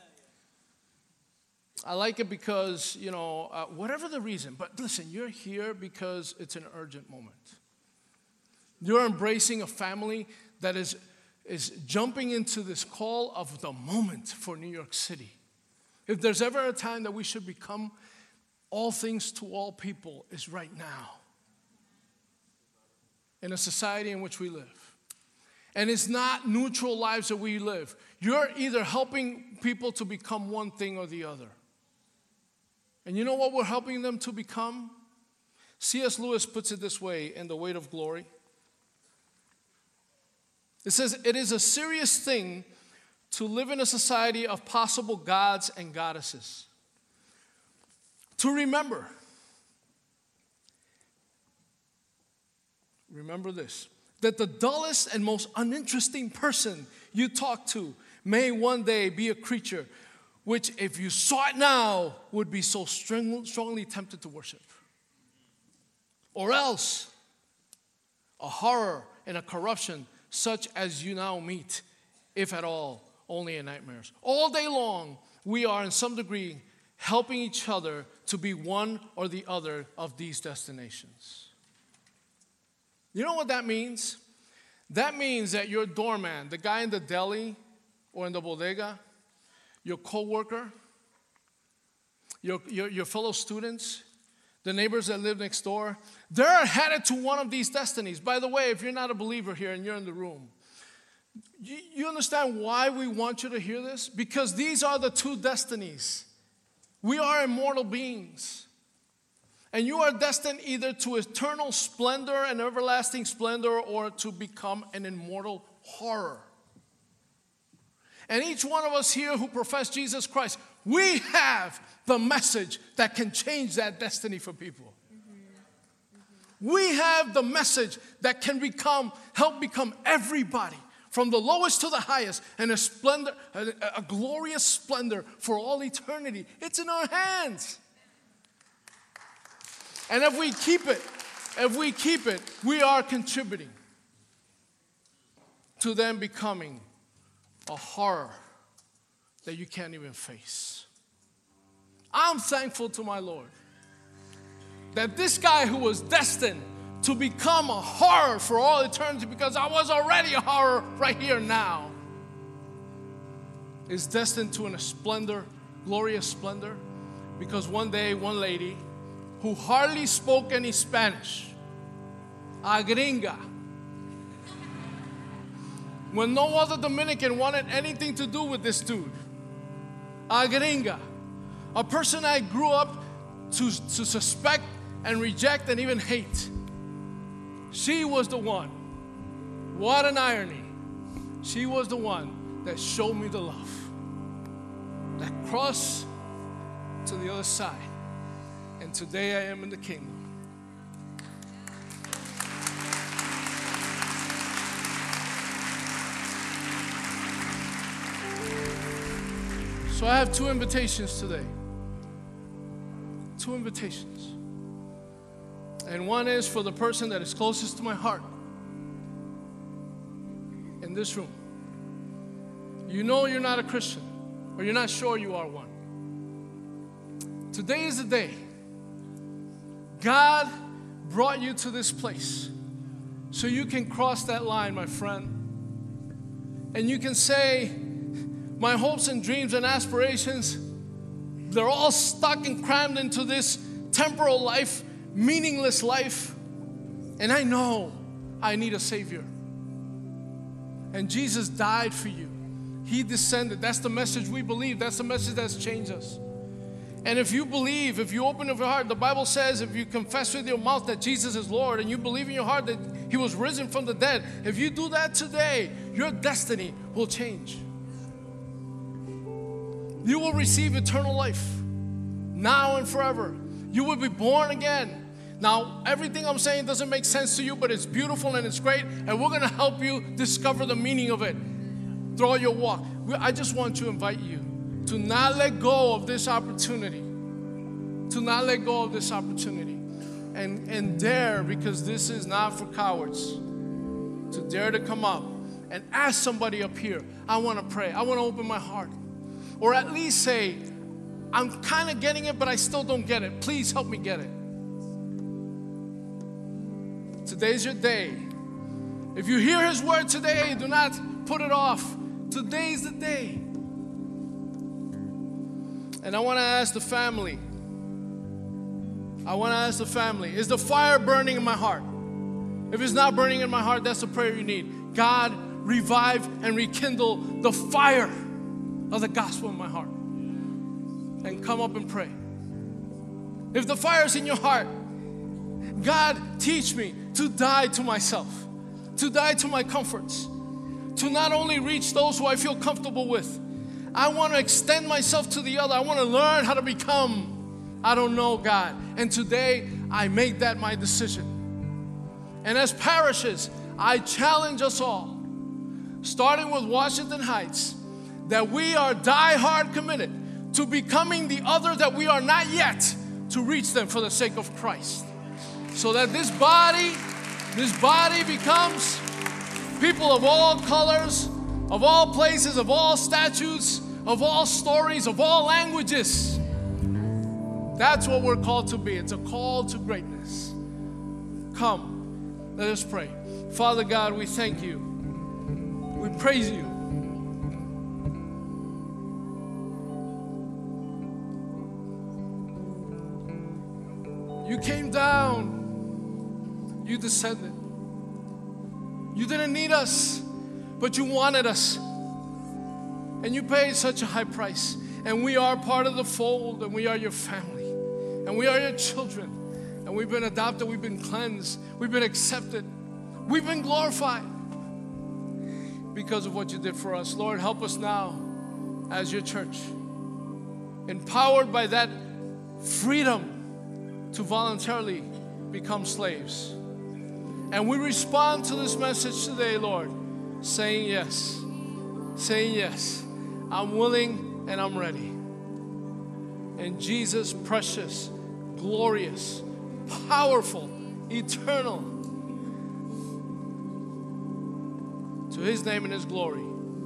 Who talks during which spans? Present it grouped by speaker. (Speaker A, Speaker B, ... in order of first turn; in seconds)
Speaker A: 1.8-7.6, 8.8-15.3, 16.1-17.9, 18.7-21.2, 23.4-24.9, 25.7-31.6, 33.0-35.0, 35.8-38.3, 40.8-42.7, 43.3-46.7, 48.4-49.1, 53.1-59.9, 60.4-64.8, 66.3-67.1, 68.4-81.5, 83.1-84.2, 84.9-87.6, 88.1-89.0, 89.8-90.7, 92.4-94.0, 94.6-100.5, 101.6-106.3, 107.0-108.7, 109.7-116.5, 118.3-125.0, 126.6-137.8, 140.1-143.7, 145.8-146.8, 147.7-148.4, 149.4-150.9, 152.1-153.5, 154.9-161.9, 163.9-166.8, 167.4-168.8, 169.4-171.6, 172.6-173.4, 176.1-179.2, 180.3-181.0, 181.7-186.5, 187.7-188.8, 189.7-190.7, 191.4-193.9, 195.2-196.1, 197.0-197.9, 198.8-200.3, 209.9-211.5, 213.4-214.3, 215.8-218.3, 220.8-221.3, 222.8-225.7, 227.5-228.4, 230.0-230.5, 231.0-232.5, 233.3-235.5, 236.7-240.7, 241.4-246.4, 247.2-249.3, 250.9-256.2, 257.0-267.6, 270.0-271.6, 272.3-281.4, 282.1-287.1, 288.1-293.4, 294.3-298.9, 299.6-300.7, 301.3-304.3, 307.2-308.3, 309.1-313.5, 316.0-317.4, 319.2-321.9, 322.7-328.1, 328.9-329.9, 331.2-332.1, 333.5-334.7, 335.8-340.3, 340.9-351.5, 352.4-355.2, 356.0-365.1, 365.7-367.0, 367.5-369.1, 369.8-376.4, 377.8-380.6, 381.5-384.9, 385.9-386.8, 394.4-396.0, 396.8-397.6, 399.1-400.3, 400.8-401.8, 403.2-412.7, 413.2-414.3, 415.9-418.3, 418.9-419.7, 420.9-422.0, 422.6-423.4, 424.1-426.6, 427.5-431.5, 432.1-435.1, 436.6-442.0, 445.3-446.5